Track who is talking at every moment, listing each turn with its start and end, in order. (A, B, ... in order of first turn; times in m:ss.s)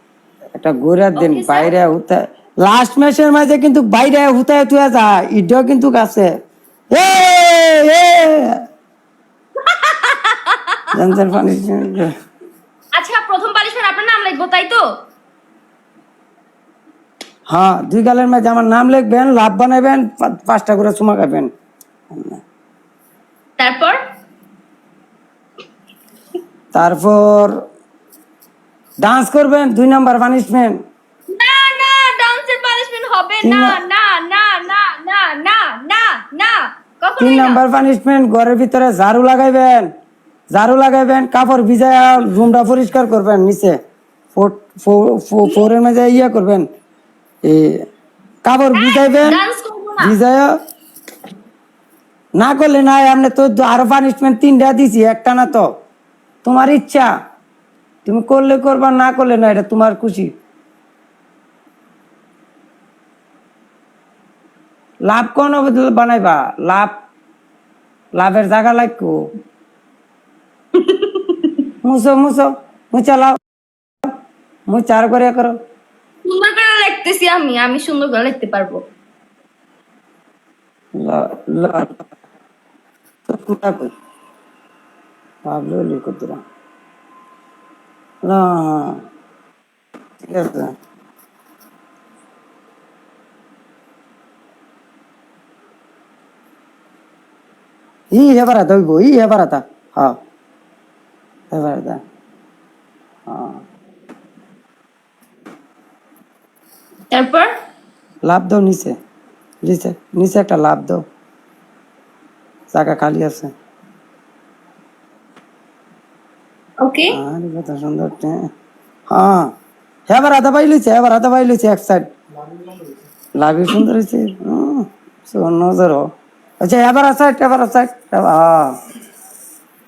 0:00.6-0:06.3 A
0:01.2-0:01.7 B
0:06.9-0:08.6 A
0:09.6-0:11.0 B
0:10.9-0:12.1 A
0:12.9-0:14.9 B
0:17.5-0:21.5 A
0:22.1-0:22.4 A
0:23.6-0:24.0 B
0:26.7-0:27.5 A
0:29.0-0:30.8 A
0:31.3-0:37.6 B
0:33.4-0:33.8 A
0:37.2-0:39.9 A
0:40.5-0:43.8 A
0:44.3-0:46.7 A
0:47.4-0:47.8 A
0:48.4-0:49.4 A
0:48.7-0:50.2 B
0:50.0-0:50.5 A
0:52.4-0:55.7 A
0:56.4-0:57.1 A
0:58.0-1:00.3 A
1:05.1-1:06.9 A
1:08.2-1:09.1 A
1:10.7-1:11.6 B
1:11.8-1:13.4 A
1:14.7-1:15.6 A
1:16.2-1:18.8 B
1:21.0-1:22.0 A
1:23.3-1:23.9 A
1:25.5-1:26.4 A
1:28.3-1:29.0 A
1:30.2-1:30.7 A
1:38.1-1:40.2 A
1:41.5-1:42.0 A
1:43.3-1:43.6 A
1:47.1-1:47.5 B
1:48.3-1:48.9 A
1:49.6-1:51.0 A
1:52.7-1:53.5 A
1:56.8-1:57.2 B
1:57.1-1:58.4 A
1:59.1-1:59.4 A
2:00.1-2:02.1 A
2:03.4-2:06.0 A
2:06.6-2:08.8 A